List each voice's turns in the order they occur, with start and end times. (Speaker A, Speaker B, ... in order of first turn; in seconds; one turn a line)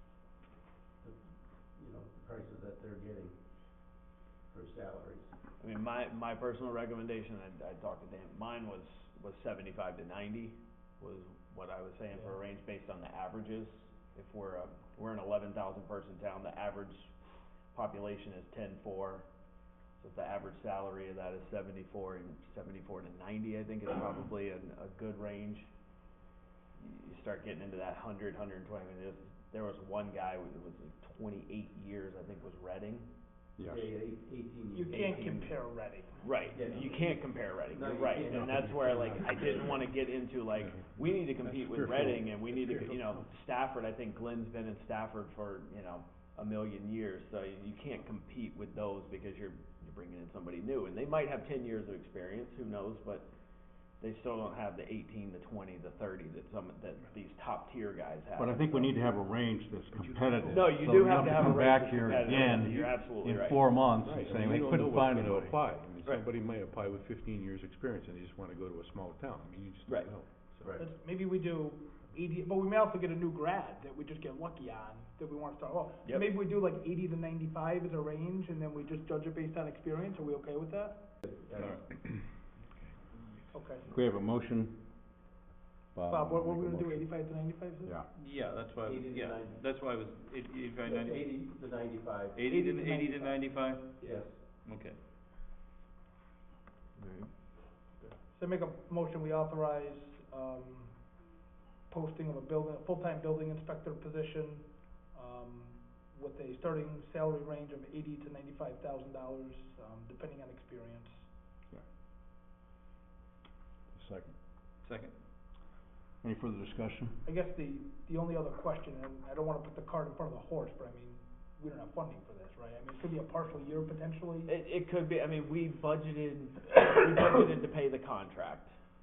Speaker A: 1.8-3.4
Speaker A: 4.5-5.3
Speaker B: 5.6-17.1
Speaker B: 17.7-19.2
Speaker B: 20.0-25.7
Speaker B: 26.8-33.1
Speaker C: 33.6-33.9
Speaker A: 33.6-35.5
Speaker D: 34.7-36.4
Speaker B: 34.9-35.3
Speaker B: 36.2-53.3
Speaker A: 36.5-39.7
Speaker E: 38.2-43.1
Speaker C: 41.8-42.2
Speaker B: 54.0-59.0
Speaker C: 58.4-65.6
Speaker E: 60.0-62.8
Speaker B: 60.5-64.6
Speaker E: 64.0-70.8
Speaker B: 69.9-70.1
Speaker A: 70.6-70.9
Speaker D: 70.8-81.2
Speaker B: 76.0-76.3
Speaker A: 81.2-81.8
Speaker F: 81.6-81.8
Speaker D: 83.5-83.9
Speaker C: 83.9-85.1
Speaker C: 85.9-87.0
Speaker D: 86.1-88.0
Speaker C: 87.8-88.1
Speaker F: 88.1-91.4
Speaker A: 88.8-89.6
Speaker A: 90.8-92.4
Speaker F: 92.3-95.0
Speaker D: 92.5-93.5
Speaker D: 94.0-94.3
Speaker A: 94.0-94.4
Speaker F: 97.0-97.3
Speaker D: 98.3-101.3
Speaker D: 101.9-111.3
Speaker C: 113.9-114.3
Speaker F: 114.8-115.1
Speaker C: 116.2-117.2
Speaker D: 117.2-124.5
Speaker B: 124.5-128.7